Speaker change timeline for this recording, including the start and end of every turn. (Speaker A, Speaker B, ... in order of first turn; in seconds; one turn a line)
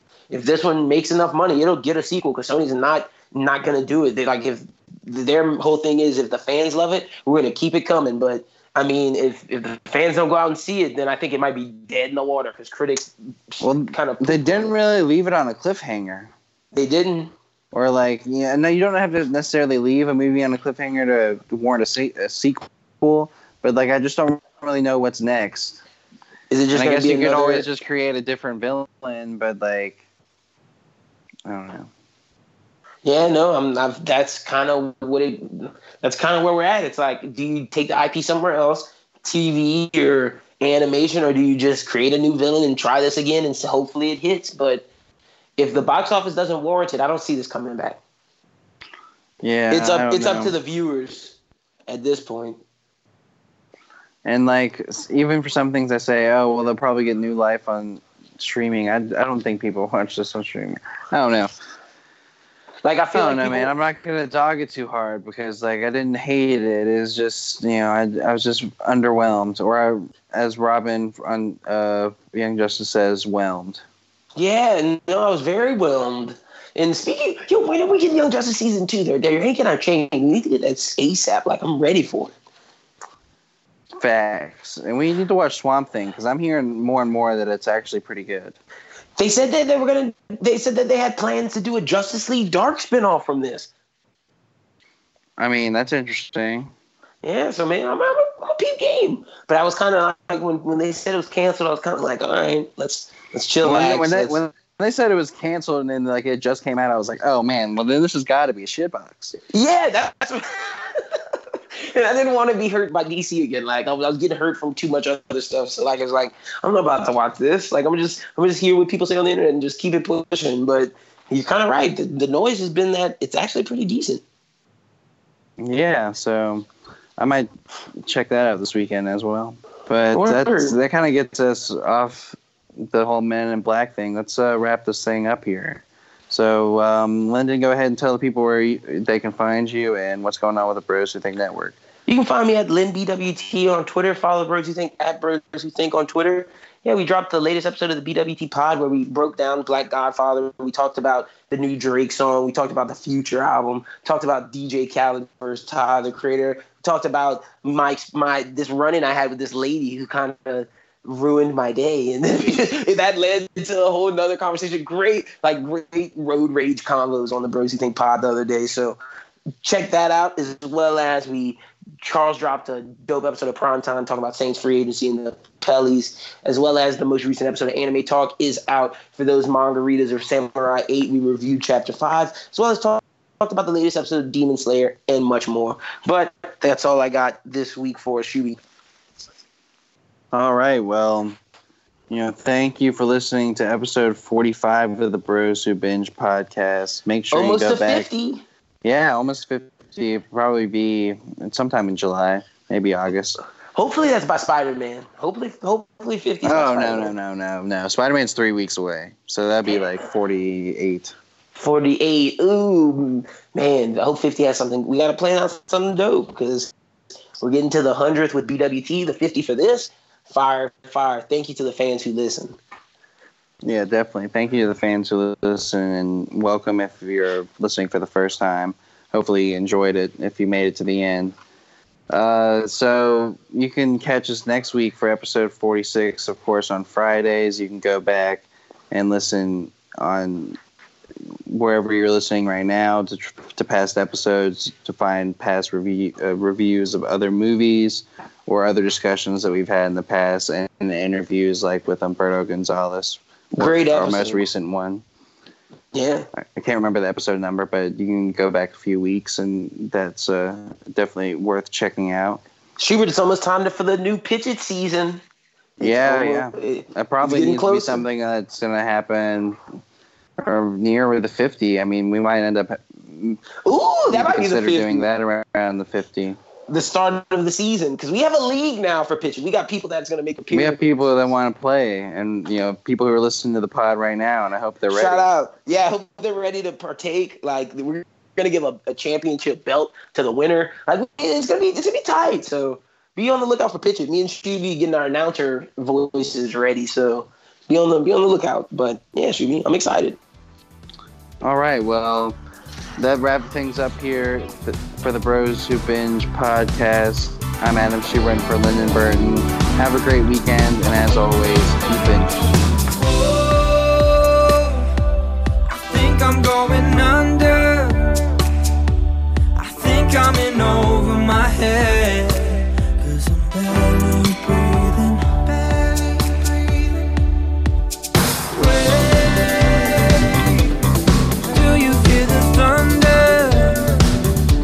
Speaker A: 0.3-14.7
Speaker B: 13.6-16.3
Speaker A: 16.7-17.3
Speaker B: 17.7-25.8
Speaker A: 26.5-27.7
Speaker B: 26.7-30.0
Speaker B: 31.5-31.9
Speaker A: 33.0-44.9
Speaker A: 45.6-48.0
Speaker B: 49.4-50.5
Speaker A: 49.7-51.4
Speaker A: 51.9-52.6
Speaker B: 54.2-61.5
Speaker A: 62.8-63.7
Speaker B: 63.1-73.8
Speaker A: 74.4-82.3
Speaker B: 84.0-88.6
Speaker A: 89.2-93.7
Speaker B: 95.4-96.7
Speaker A: 97.2-104.4
Speaker B: 103.6-109.4
Speaker A: 109.5-111.2
Speaker A: 111.8-124.2
Speaker B: 125.6-127.5
Speaker B: 128.0-141.8
Speaker A: 130.1-130.8
Speaker A: 142.1-169.0
Speaker A: 169.6-188.6
Speaker B: 190.3-191.4
Speaker B: 192.1-198.1
Speaker A: 197.3-198.4
Speaker B: 198.8-203.4
Speaker A: 203.8-207.2
Speaker B: 206.4-211.2
Speaker A: 211.6-216.7
Speaker A: 217.4-222.6
Speaker B: 223.6-231.3
Speaker B: 232.1-240.6
Speaker B: 241.5-255.0
Speaker A: 253.5-254.4
Speaker A: 255.9-256.3
Speaker B: 256.4-262.4
Speaker A: 262.8-265.2
Speaker B: 265.8-269.6
Speaker A: 265.8-268.0
Speaker B: 270.4-273.4
Speaker A: 273.6-275.1
Speaker B: 274.1-276.4
Speaker A: 276.7-280.9
Speaker B: 280.5-285.3
Speaker A: 284.9-300.2
Speaker B: 301.4-302.4
Speaker B: 303.0-312.4
Speaker C: 312.9-314.8
Speaker C: 315.7-318.3
Speaker C: 319.6-327.2
Speaker C: 328.5-330.5
Speaker C: 331.4-334.1